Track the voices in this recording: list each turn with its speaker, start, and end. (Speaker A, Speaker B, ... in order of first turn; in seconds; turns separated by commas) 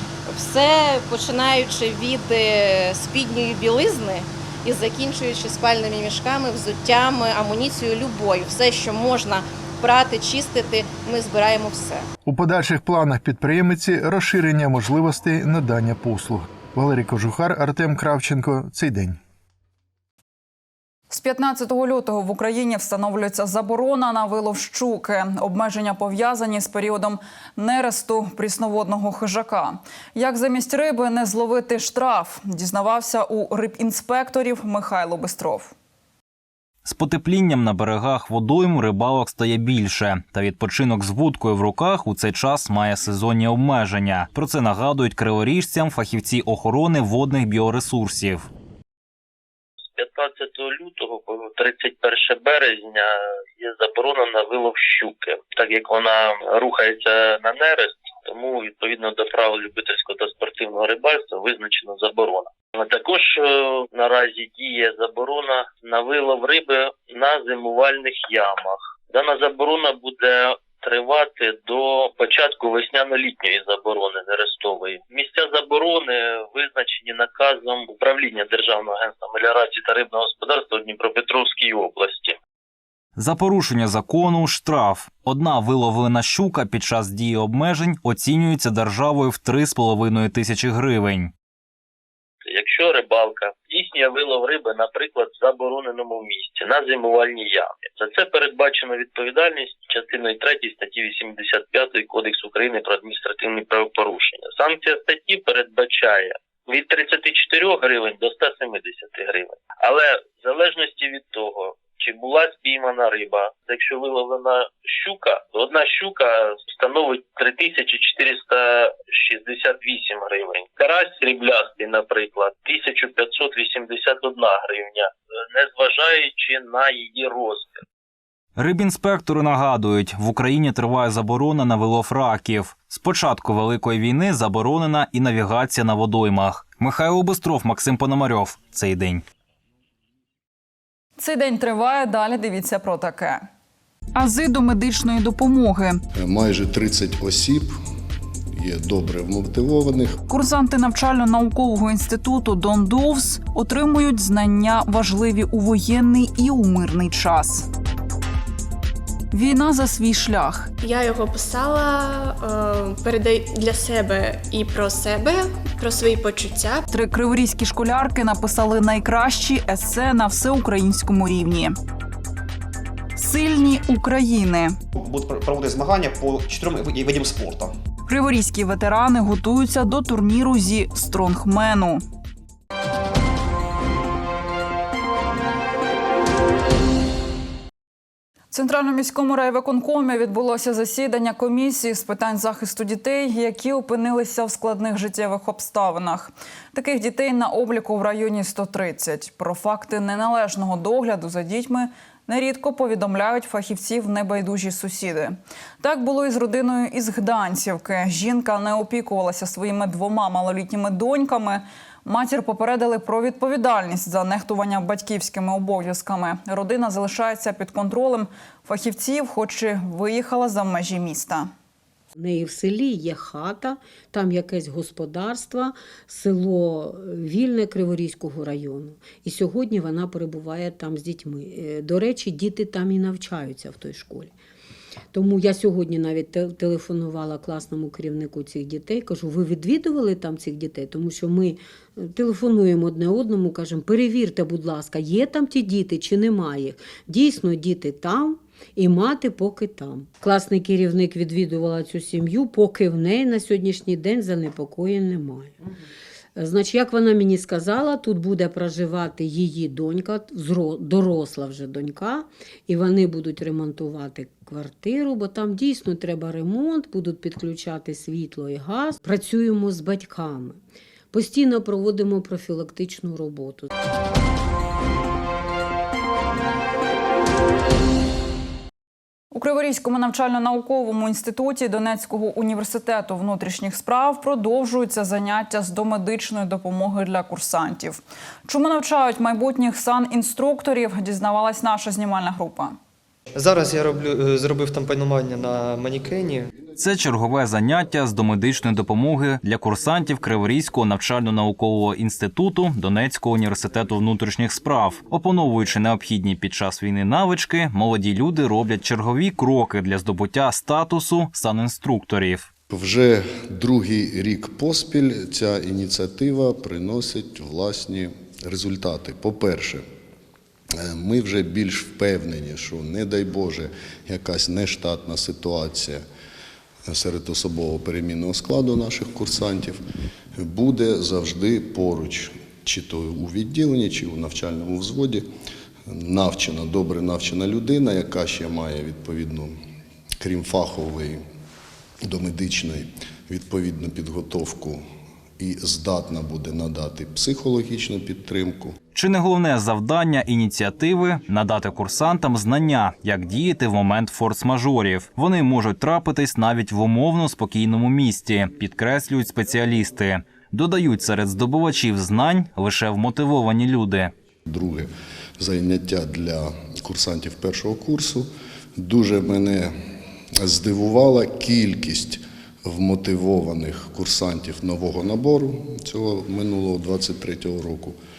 Speaker A: 0.3-12.1, Speaker B: 12.3-19.2, Speaker C: 15.4-16.7, Speaker C: 17.6-18.3, Speaker D: 21.1-35.7, Speaker E: 36.8-48.5, Speaker F: 50.0-53.1, Speaker F: 53.6-82.3, Speaker E: 83.2-91.3, Speaker F: 92.5-127.8, Speaker E: 128.6-139.2, Speaker D: 141.2-143.5, Speaker D: 144.1-146.0, Speaker G: 146.2-147.7, Speaker G: 148.5-150.2, Speaker D: 150.3-157.7, Speaker D: 159.3-160.7, Speaker H: 160.8-166.8, Speaker D: 166.9-171.8, Speaker D: 173.2-174.8, Speaker I: 175.0-177.7, Speaker D: 178.1-182.0, Speaker D: 188.5-221.5, Speaker C: 222.2-234.3, Speaker C: 235.1-255.5, Speaker C: 256.4-270.6, Speaker C: 271.1-273.7, Speaker D: 279.3-292.8, Speaker J: 293.3-296.5, Speaker E: 296.8-312.5, Speaker G: 312.7-319.8, Speaker G: 320.8-326.0, Speaker G: 326.9-329.8, Speaker G: 330.4-335.2, Speaker G: 335.9-339.5, Speaker G: 340.2-341.2, Speaker G: 342.0-344.8, Speaker G: 345.4-348.7, Speaker E: 348.9-364.1, Speaker G: 364.5-369.7, Speaker G: 370.4-377.9